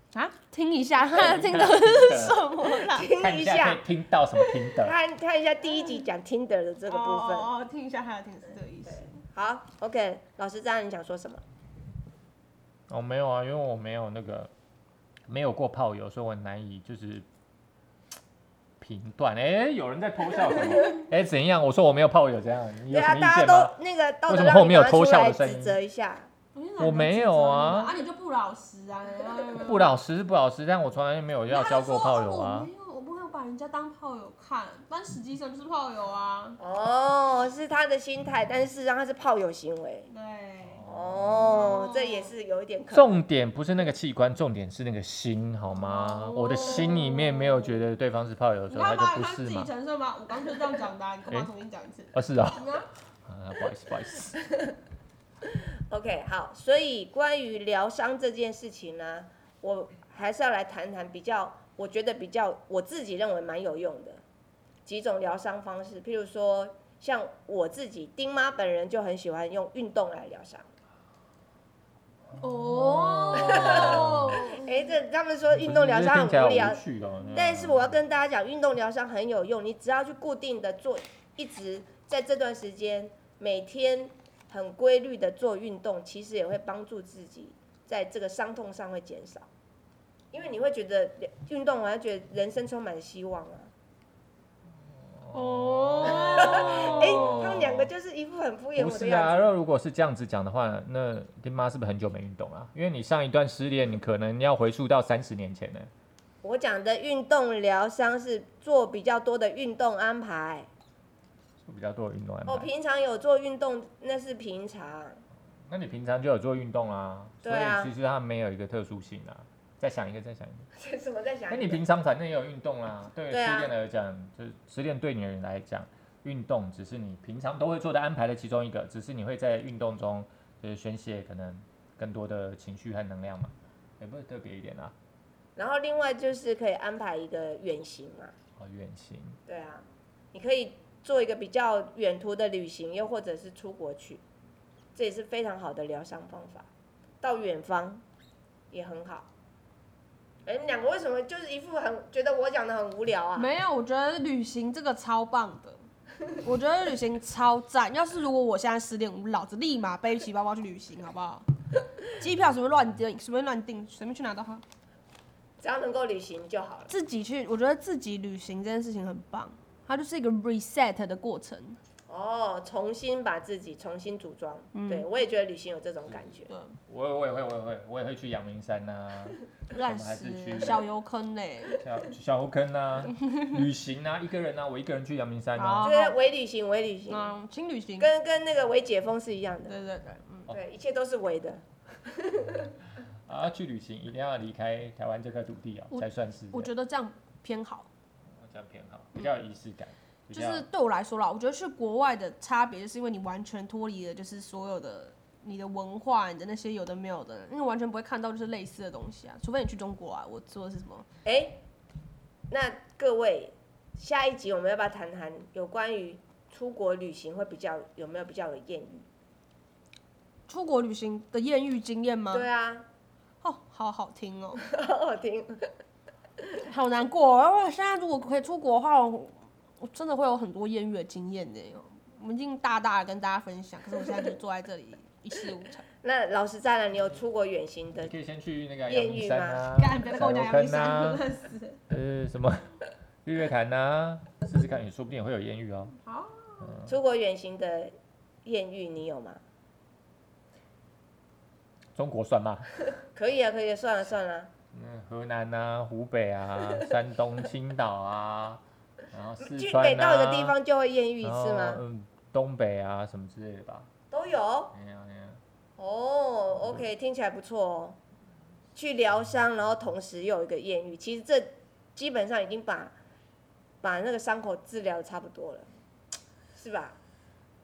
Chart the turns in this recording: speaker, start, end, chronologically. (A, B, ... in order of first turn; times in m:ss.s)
0:00.1-0:03.1 A
0:01.1-0:02.4 B
0:02.7-0:03.8 C
0:03.0-0:05.0 B
0:04.8-0:07.5 C
0:06.9-0:09.1 A
0:08.8-0:11.4 C
0:12.9-0:14.5 B
0:15.3-0:17.3 B
0:18.8-0:23.7 B
0:22.9-0:26.3 C
0:24.3-0:25.8 B
0:26.5-0:29.9 A
0:26.8-0:28.0 B
0:29.6-0:32.7 B
0:31.5-0:36.6 A
0:36.6-0:40.1 C
0:40.1-0:40.8 A
0:40.7-0:41.7 B
0:40.8-0:43.2 C
0:41.4-0:42.3 A
0:42.9-0:49.7 B
0:45.7-0:47.8 A
0:48.7-0:52.9 A
0:52.1-0:54.4 B
0:55.9-1:04.2 C
1:04.9-1:10.6 C
1:12.4-1:14.6 A
1:12.6-1:14.4 B
1:13.4-1:29.5 C
1:15.6-1:18.0 B
1:30.3-1:33.7 C
1:34.9-1:37.9 B
1:35.3-1:37.4 A
1:36.0-1:39.5 C
1:38.8-1:45.9 B
1:46.4-1:50.7 C
1:51.6-1:52.7 B
1:52.4-1:55.2 C
1:55.7-2:00.7 B
1:57.4-1:57.9 C
2:00.7-2:01.8 C
2:01.5-2:14.9 B
2:03.3-2:03.7 C
2:15.6-2:18.3 C
2:18.6-2:19.4 B
2:19.5-2:24.2 C
2:25.0-2:26.7 C
2:27.2-2:28.0 C
2:28.7-2:29.3 C
2:30.4-2:33.5 C
2:33.4-2:35.8 A
2:36.3-2:41.5 A
2:42.0-2:44.6 A
2:45.6-2:46.9 C
2:46.9-2:51.8 A
2:52.1-2:56.5 C
2:54.7-2:55.1 A
2:56.5-2:56.8 A
2:56.9-3:00.9 B
2:59.7-3:01.8 A
3:01.7-3:06.0 B
3:05.6-3:06.2 A
3:05.8-3:07.3 C
3:07.1-3:08.1 A
3:08.0-3:09.7 C
3:09.7-3:10.5 A
3:10.5-3:12.7 C
3:13.2-3:16.7 B
3:15.9-3:17.9 A
3:18.3-3:20.6 B
3:20.3-3:31.0 A
3:31.2-3:31.6 C
3:32.5-3:39.0 C
3:40.5-3:42.5 A
3:42.3-3:42.9 C
3:43.4-3:44.6 A
3:44.6-3:45.6 C
3:46.6-3:55.8 A
3:56.0-3:58.1 C
3:58.0-4:01.2 B
3:58.9-3:59.7 C
3:59.8-4:01.8 A
4:01.9-4:02.6 B
4:03.2-4:06.0 B
4:06.0-4:06.7 A
4:06.6-4:06.9 B
4:06.8-4:07.9 C
4:08.4-4:09.4 C
4:11.9-4:12.8 B
4:13.1-4:14.5 C
4:14.7-4:20.5 B
4:19.4-4:21.8 C
4:21.2-4:23.9 B
4:24.1-4:24.7 C
4:24.7-4:25.4 B
4:25.8-4:28.0 C
4:28.7-4:32.9 C
4:33.8-4:35.7 C
4:36.5-4:37.0 C